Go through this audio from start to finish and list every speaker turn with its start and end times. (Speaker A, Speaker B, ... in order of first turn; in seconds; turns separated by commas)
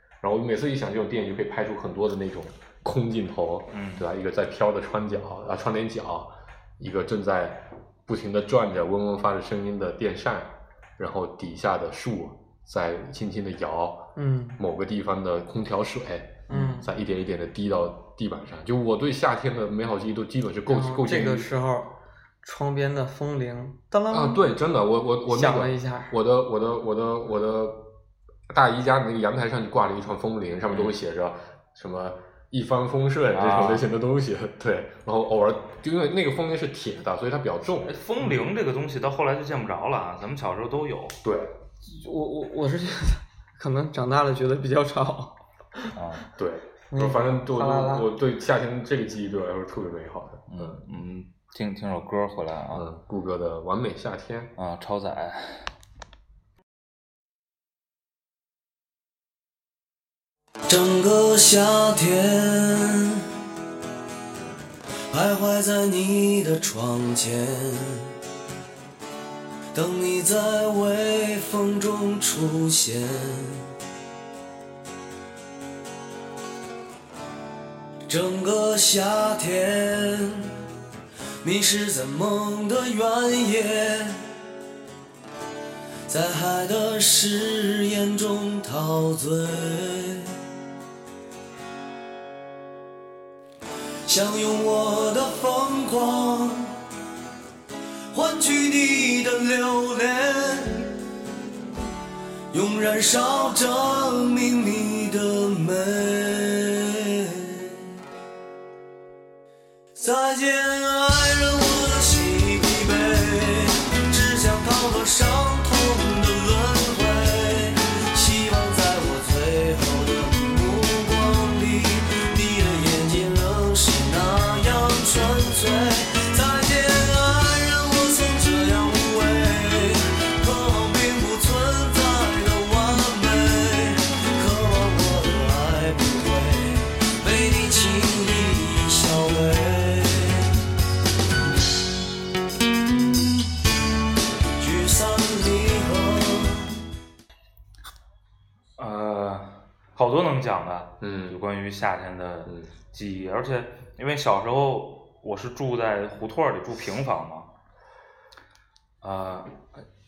Speaker A: 0.2-21.5, Speaker B: 3.7-4.0, Speaker C: 14.2-14.6, Speaker C: 16.5-16.9, Speaker C: 20.7-24.4, Speaker A: 24.1-27.9, Speaker C: 25.3-26.1, Speaker A: 28.5-37.9, Speaker B: 33.3-33.8, Speaker B: 37.8-41.2, Speaker A: 41.2-41.5, Speaker C: 41.8-46.0, Speaker B: 45.9-46.2, Speaker A: 46.4-50.8, Speaker C: 46.9-48.1, Speaker B: 50.5-52.8, Speaker A: 52.7-54.5, Speaker B: 54.6-55.7, Speaker D: 60.7-63.3, Speaker D: 65.1-68.1, Speaker D: 69.7-73.7, Speaker D: 78.1-80.6, Speaker D: 81.4-84.3, Speaker D: 86.1-90.4, Speaker D: 94.0-96.8, Speaker D: 98.1-101.0, Speaker D: 102.5-107.9, Speaker D: 109.9-140.5, Speaker D: 144.6-146.8, Speaker B: 148.8-157.5, Speaker A: 151.0-151.4, Speaker A: 152.4-152.7, Speaker B: 159.0-159.6